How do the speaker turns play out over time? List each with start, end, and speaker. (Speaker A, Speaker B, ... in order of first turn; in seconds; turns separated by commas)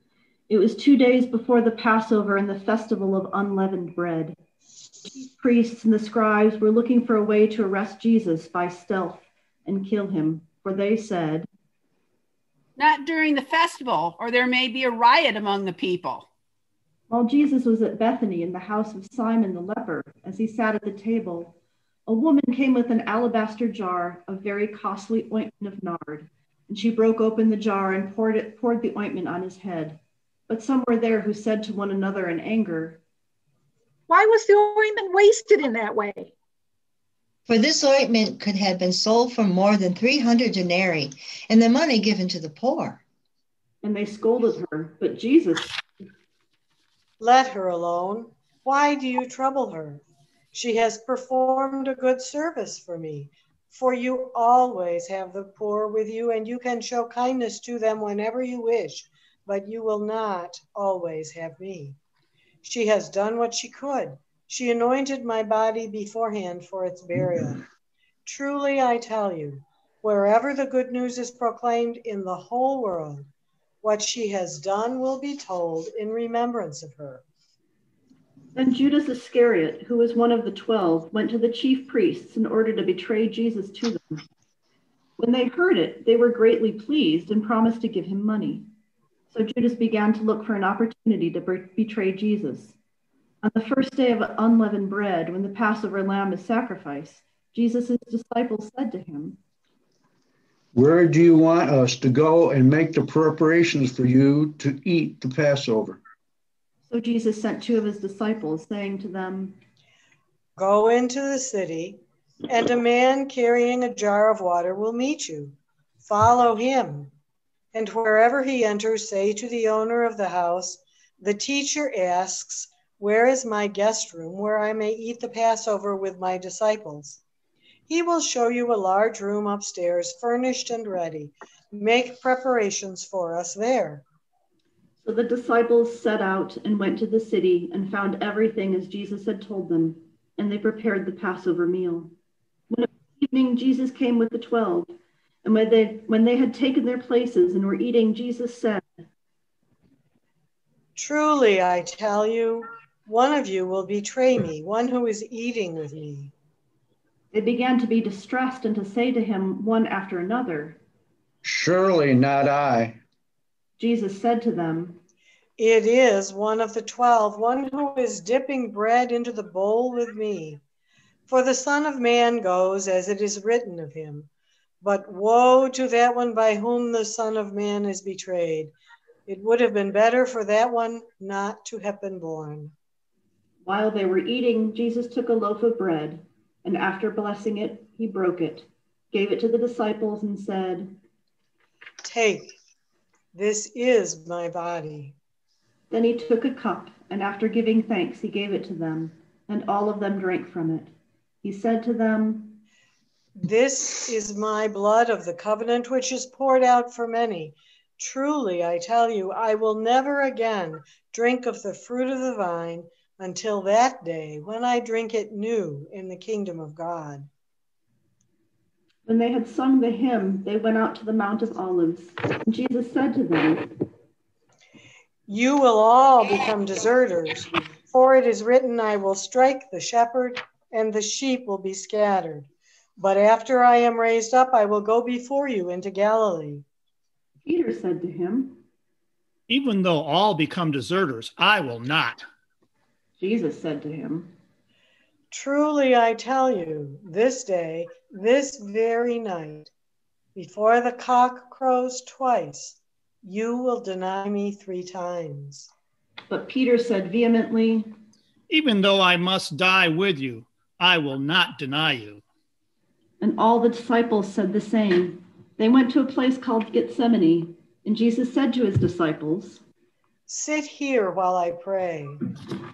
Speaker A: 0.5-4.4, Speaker A: 5.1-11.5, Speaker B: 12.8-16.3, Speaker A: 17.1-21.6, Speaker A: 22.1-33.0, Speaker C: 34.1-36.3, Speaker D: 37.5-43.0, Speaker A: 43.8-45.8, Speaker E: 47.2-62.0, Speaker E: 62.6-67.6, Speaker E: 68.2-73.3, Speaker E: 73.8-77.2, Speaker A: 78.5-84.2, Speaker A: 85.2-88.7, Speaker A: 89.3-92.8, Speaker A: 93.4-99.4, Speaker F: 100.7-106.0, Speaker A: 106.9-109.6, Speaker E: 110.6-117.1, Speaker E: 117.7-127.2, Speaker E: 127.9-134.0, Speaker A: 135.0-142.1, Speaker A: 142.7-149.0, Speaker E: 150.9-156.3, Speaker A: 157.3-160.8, Speaker F: 161.4-163.0, Speaker A: 163.8-165.0, Speaker E: 165.6-170.6, Speaker E: 171.3-174.3, Speaker E: 174.8-178.7, Speaker E: 179.3-182.7, Speaker A: 183.6-190.9, Speaker E: 192.0-192.6, Speaker E: 193.3-195.1, Speaker A: 195.9-200.9, Speaker A: 201.4-202.6, Speaker E: 203.4-217.3, Speaker A: 219.1-223.7, Speaker E: 225.3-232.5, Speaker E: 233.0-236.6, Speaker A: 237.4-238.6, Speaker G: 239.5-242.2, Speaker A: 243.2-244.3, Speaker E: 245.3-249.7, Speaker E: 250.3-255.7, Speaker A: 256.3-257.9, Speaker G: 258.5-262.2, Speaker A: 263.2-269.6, Speaker E: 270.3-272.2